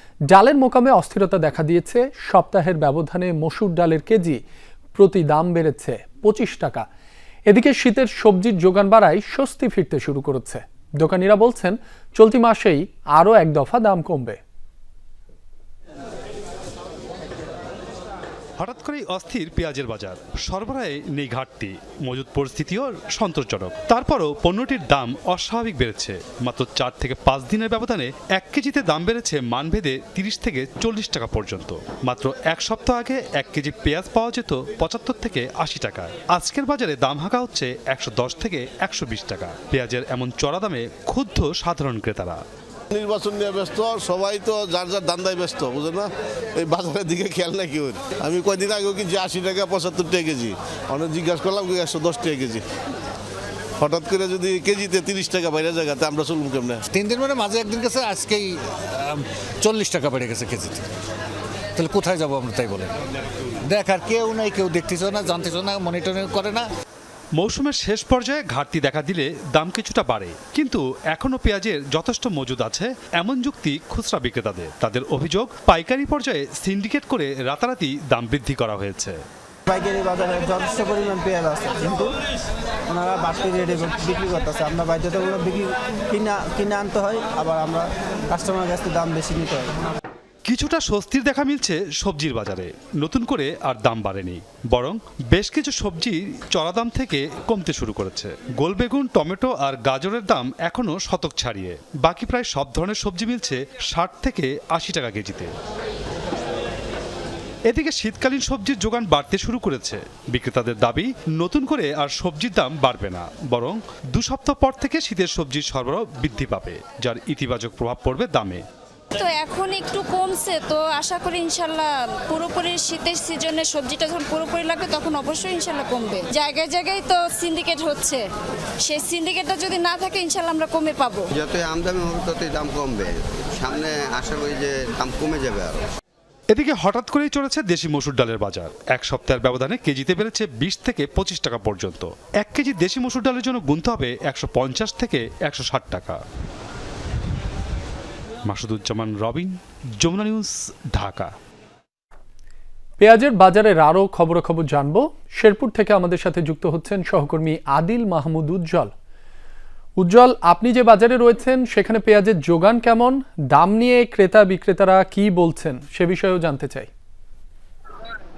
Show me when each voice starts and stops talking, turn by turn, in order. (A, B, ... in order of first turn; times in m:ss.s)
0:00.3-0:04.4 A
0:05.0-0:06.9 A
0:07.5-0:14.4 A
0:18.6-0:42.4 B
0:42.9-0:52.6 C
0:53.8-0:56.8 C
0:57.0-1:00.9 D
1:01.8-1:02.9 D
1:03.7-1:06.6 D
1:07.4-1:19.2 B
1:19.7-1:22.1 E
1:22.9-1:29.7 E
1:30.4-1:45.5 B
1:47.7-1:58.6 B
1:59.1-2:08.2 F
2:08.8-2:11.2 F
2:11.3-2:15.8 G
2:16.5-2:26.2 B
2:28.5-2:31.3 B
2:33.0-2:38.9 A
2:40.0-2:46.9 A